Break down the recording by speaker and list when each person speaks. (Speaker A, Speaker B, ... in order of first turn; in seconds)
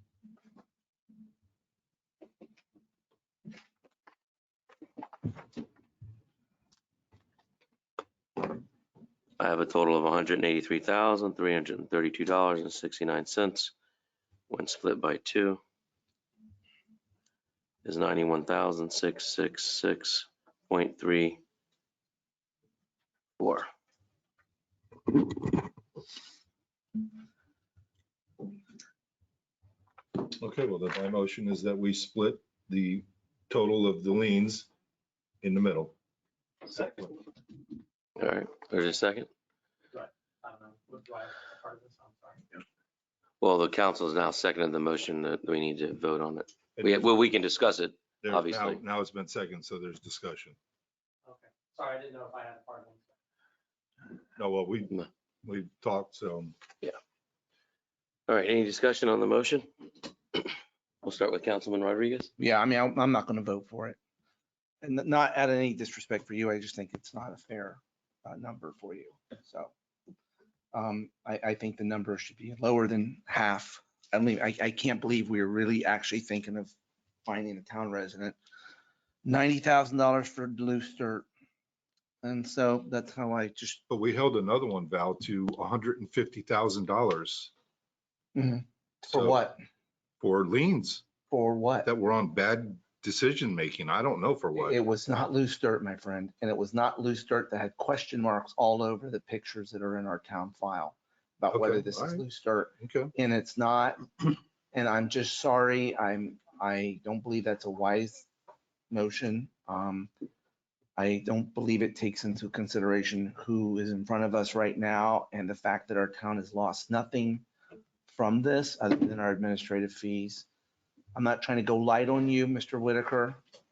Speaker A: 9.4-13.7, 14.5-15.6, 17.8-21.4, 23.4-23.7, 38.2-39.3, 43.4-48.8, 58.3-59.7, 60.3-62.3
Speaker B: 30.4-34.7, 35.4-35.9, 48.3-50.5, 54.4-54.9, 55.4-56.5, 83.9-87.5, 89.1-89.4, 90.2-91.0, 91.9-94.7, 101.6-102.2, 102.8-103.1
Speaker C: 36.7-37.1, 39.9-42.5, 51.2-53.0
Speaker D: 62.4-64.0, 64.8-69.7, 70.7-76.7, 77.2-78.4, 79.2-81.3, 82.2-83.8, 88.3-89.6, 91.3-91.9, 94.6-108.3, 108.9-110.1, 111.0-117.4, 118.1-120.5, 121.2-123.4